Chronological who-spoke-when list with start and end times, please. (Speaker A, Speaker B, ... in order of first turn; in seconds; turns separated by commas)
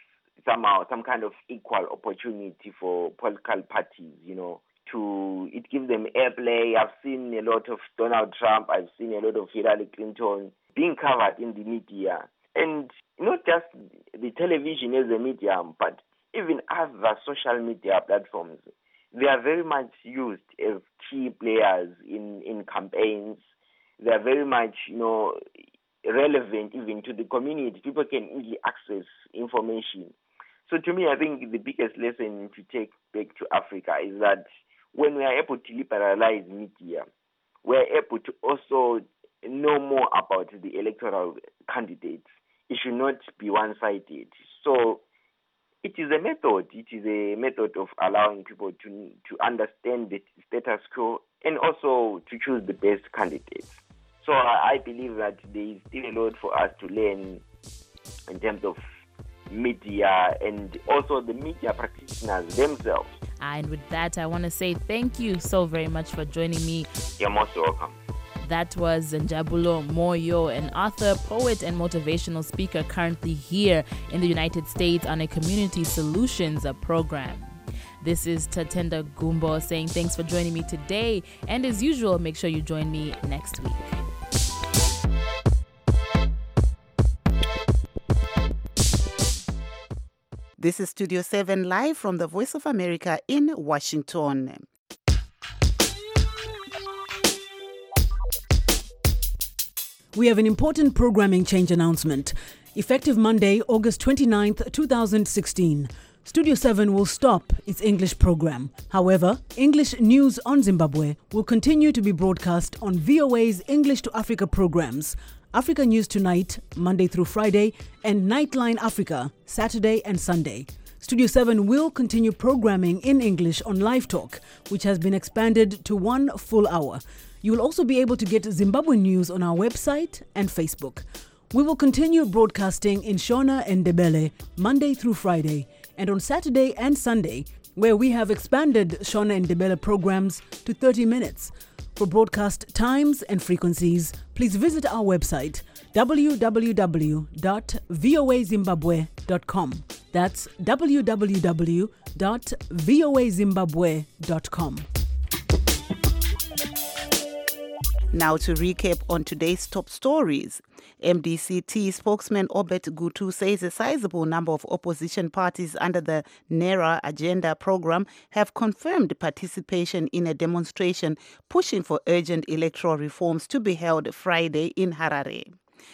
Speaker A: 0.4-23.4, Speaker A: 24.0-25.4, Speaker A: 26.0-30.1, Speaker A: 30.7-37.1, Speaker A: 37.6-45.0, Speaker A: 45.8-57.4, Speaker A: 58.3-58.8, Speaker A: 59.5-63.2, Speaker B: 63.4-66.9, Speaker A: 67.2-68.0, Speaker B: 68.4-84.0, Speaker C: 90.6-94.6, Speaker D: 100.1-154.9, Speaker C: 158.1-175.5